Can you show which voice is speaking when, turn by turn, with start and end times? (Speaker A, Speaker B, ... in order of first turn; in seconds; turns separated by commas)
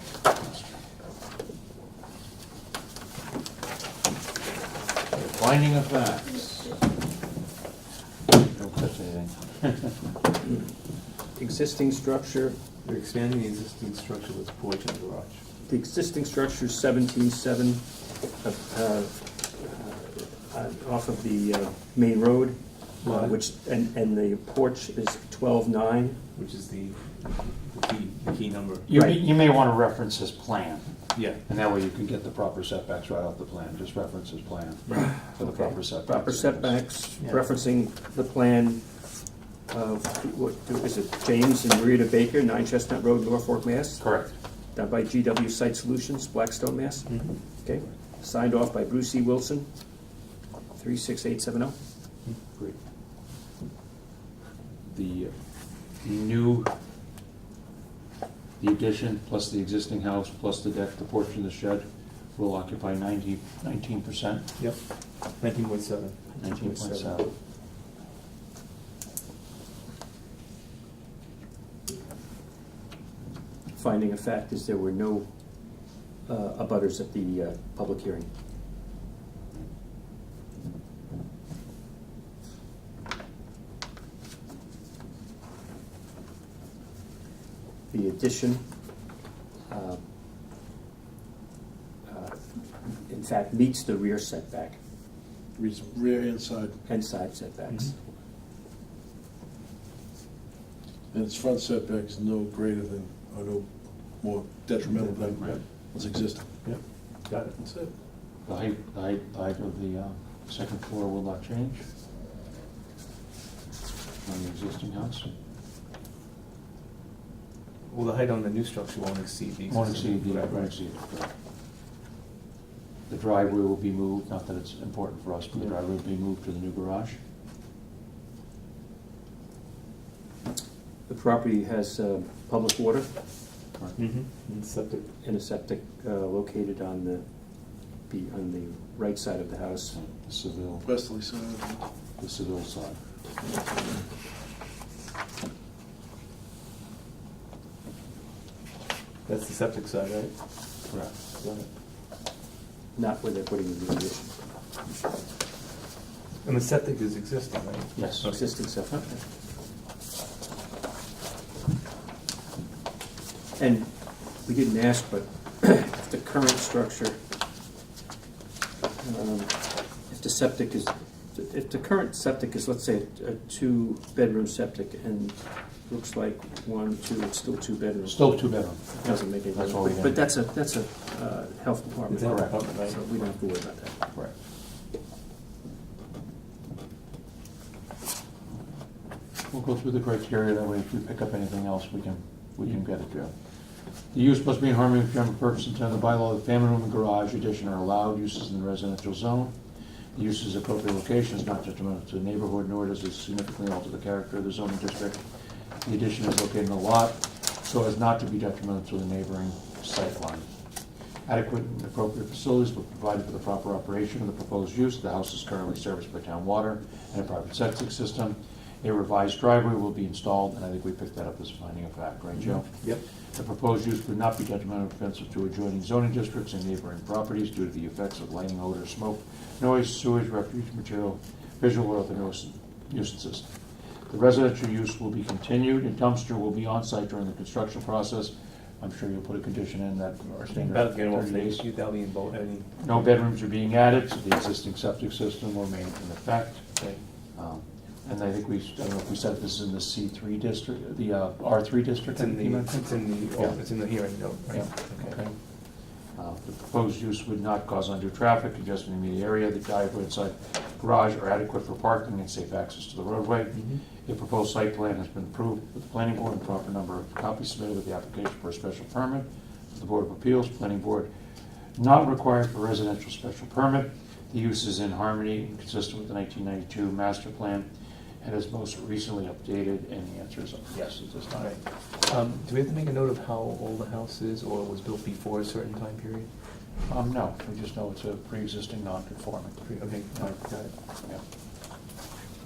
Speaker A: 5.1-6.8, Speaker A: 8.3-10.1, Speaker B: 10.4-10.7, Speaker B: 11.3-12.6, Speaker C: 12.8-15.4, Speaker B: 15.7-17.8, Speaker B: 18.4-26.2, Speaker C: 23.0-23.4, Speaker C: 26.3-28.9, Speaker A: 28.9-36.8, Speaker B: 28.9-29.2, Speaker B: 34.9-38.8, Speaker C: 37.2-37.4, Speaker B: 39.7-44.0, Speaker A: 44.0-44.3, Speaker B: 44.7-49.7, Speaker C: 47.1-47.4, Speaker B: 50.7-51.7, Speaker A: 54.9-55.3, Speaker A: 56.0-56.7, Speaker A: 58.6-61.8, Speaker A: 62.4-64.5, Speaker C: 64.6-66.4, Speaker A: 66.4-67.3, Speaker B: 66.4-67.1, Speaker B: 73.7-75.3, Speaker B: 76.2-78.3, Speaker B: 87.9-88.6, Speaker B: 89.7-90.0, Speaker B: 92.1-94.8, Speaker D: 95.5-96.8, Speaker B: 96.8-98.1, Speaker D: 101.1-107.0, Speaker C: 105.0-105.9, Speaker C: 106.6-107.5, Speaker D: 107.6-107.9, Speaker A: 108.4-111.8, Speaker A: 114.2-115.3, Speaker C: 117.9-120.7, Speaker A: 119.7-121.3, Speaker A: 123.1-127.2, Speaker B: 131.1-133.1, Speaker C: 134.0-135.1, Speaker B: 135.2-137.2, Speaker B: 138.1-139.9, Speaker A: 139.9-140.9, Speaker D: 140.8-141.9, Speaker A: 142.2-143.0, Speaker C: 149.2-150.3, Speaker A: 150.9-151.1, Speaker C: 151.4-151.7, Speaker B: 152.9-154.3, Speaker C: 156.4-158.5, Speaker A: 157.9-158.3, Speaker B: 158.2-159.2, Speaker B: 163.6-163.9, Speaker B: 164.4-167.2, Speaker B: 169.0-183.9, Speaker A: 178.0-180.2, Speaker C: 182.1-183.0, Speaker A: 182.2-182.6, Speaker A: 189.5-193.3, Speaker A: 194.1-199.5, Speaker A: 200.1-205.2, Speaker A: 205.8-210.5, Speaker A: 211.3-233.5, Speaker C: 222.4-223.0, Speaker A: 234.1-241.6, Speaker C: 240.5-242.7, Speaker A: 242.8-246.7, Speaker A: 247.3-252.8, Speaker C: 252.1-255.2, Speaker A: 254.5-255.4, Speaker A: 256.1-271.1, Speaker C: 263.5-263.8, Speaker A: 271.8-277.7, Speaker A: 278.2-281.5, Speaker C: 281.3-286.3, Speaker A: 286.9-289.8, Speaker C: 289.7-290.7